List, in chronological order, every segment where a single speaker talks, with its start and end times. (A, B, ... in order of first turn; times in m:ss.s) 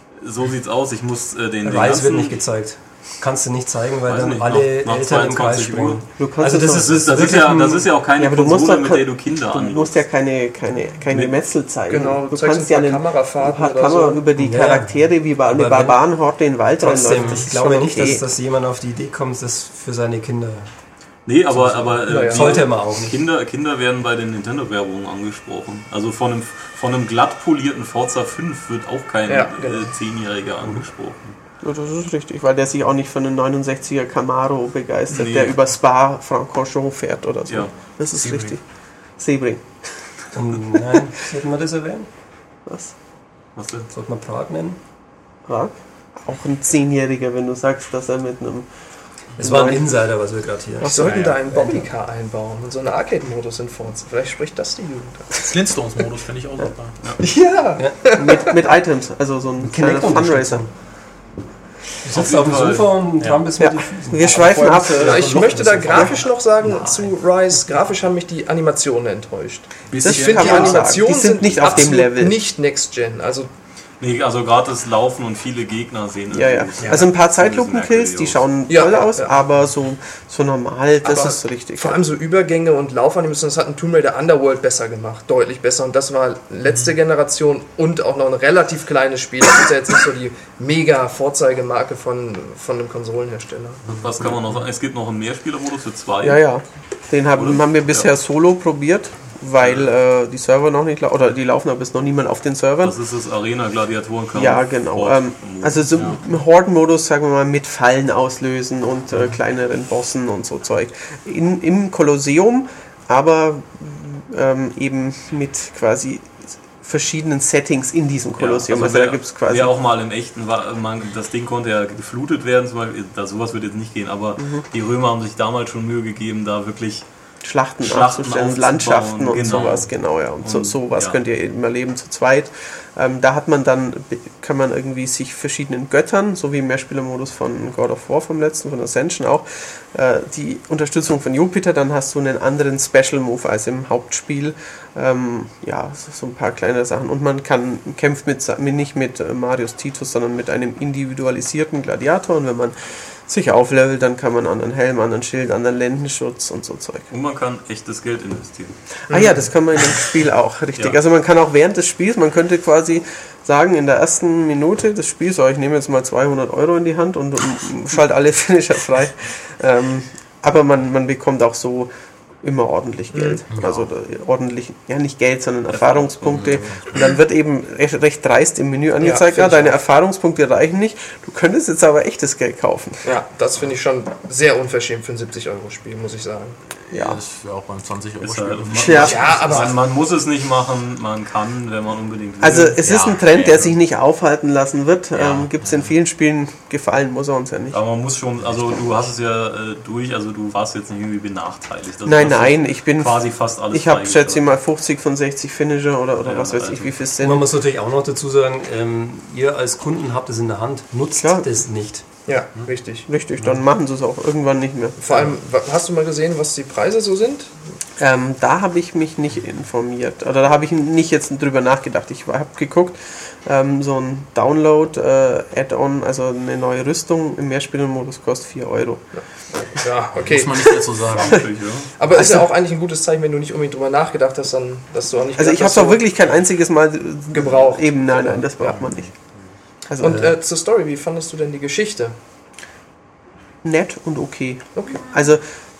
0:00.2-0:02.4 A
0:01.6-0:07.9 B
0:04.1-0:06.0 A
0:06.2-0:07.4 C
0:06.6-0:10.0 A
0:08.2-0:18.2 C
0:11.9-0:14.2 D
0:14.4-0:14.9 B
0:15.5-0:16.0 B
0:16.8-0:20.7 B
0:21.2-0:31.3 A
0:21.6-0:23.2 B
0:22.0-0:22.6 D
0:29.3-0:29.9 D
0:31.6-0:38.6 C
0:35.1-0:35.6 A
0:38.2-0:38.5 E
0:39.2-0:39.7 C
0:40.3-0:42.1 B
0:42.6-0:42.9 C
0:43.6-0:43.9 A
0:43.9-0:44.8 B
0:45.4-0:48.7 C
0:49.4-0:50.0 C
0:49.4-0:51.8 B
0:50.8-0:55.4 D
0:50.9-0:51.4 E
0:55.4-0:57.0 E
0:57.2-0:58.6 D
0:57.8-0:58.3 B
0:58.0-1:00.6 C
0:59.6-1:00.7 B
1:02.0-1:04.7 B
1:02.1-1:03.0 A
1:03.2-1:03.5 E
1:03.6-1:05.3 C
1:04.2-1:06.2 E
1:05.0-1:13.5 D
1:05.3-1:07.1 B
1:05.9-1:06.2 C
1:09.9-1:11.0 E
1:10.0-1:12.4 C
1:14.0-1:18.4 A
1:16.3-1:22.0 C
1:16.8-1:17.1 E
1:18.7-1:19.4 D
1:21.0-1:33.8 D
1:33.9-1:36.4 A
1:36.2-1:42.9 C
1:37.4-1:38.1 A
1:39.6-1:39.9 A
1:42.8-1:46.0 A
1:44.3-1:59.7 C
1:45.9-1:46.2 E
1:58.4-2:07.0 A
2:04.4-2:04.6 C
2:07.4-2:32.8 C
2:07.8-2:11.2 A
2:33.3-2:37.1 C
2:37.1-2:38.8 A
2:39.1-2:39.4 D
2:39.1-2:51.9 C
2:52.4-3:03.0 C
2:53.1-2:53.4 D
2:53.5-2:53.9 E
2:55.7-2:57.0 A
2:56.3-2:56.8 E
2:59.0-2:59.8 D
3:03.0-3:06.6 D
3:06.8-3:09.7 E
3:06.9-3:07.2 C
3:08.2-3:12.8 A
3:08.8-3:09.2 C
3:08.9-3:09.7 D
3:12.4-3:17.8 C
3:12.8-3:13.7 E
3:15.1-3:15.9 E
3:17.7-3:24.5 A
3:22.0-3:27.5 C
3:26.2-3:26.9 A
3:27.2-3:32.0 B
3:31.2-3:31.5 C
3:32.3-3:33.1 D
3:33.1-3:35.1 C
3:35.0-3:37.5 D
3:38.0-3:49.0 C
3:49.2-3:51.1 D
3:50.2-3:51.4 E
3:51.1-3:51.9 A
3:52.0-3:56.0 D
3:52.1-3:52.5 C
3:55.4-3:59.1 C
3:57.3-3:58.5 D
3:58.6-3:59.2 E
3:59.9-4:00.3 C
4:00.0-4:02.2 D
4:00.0-4:00.3 B
4:03.6-4:05.4 C
4:04.8-4:05.0 D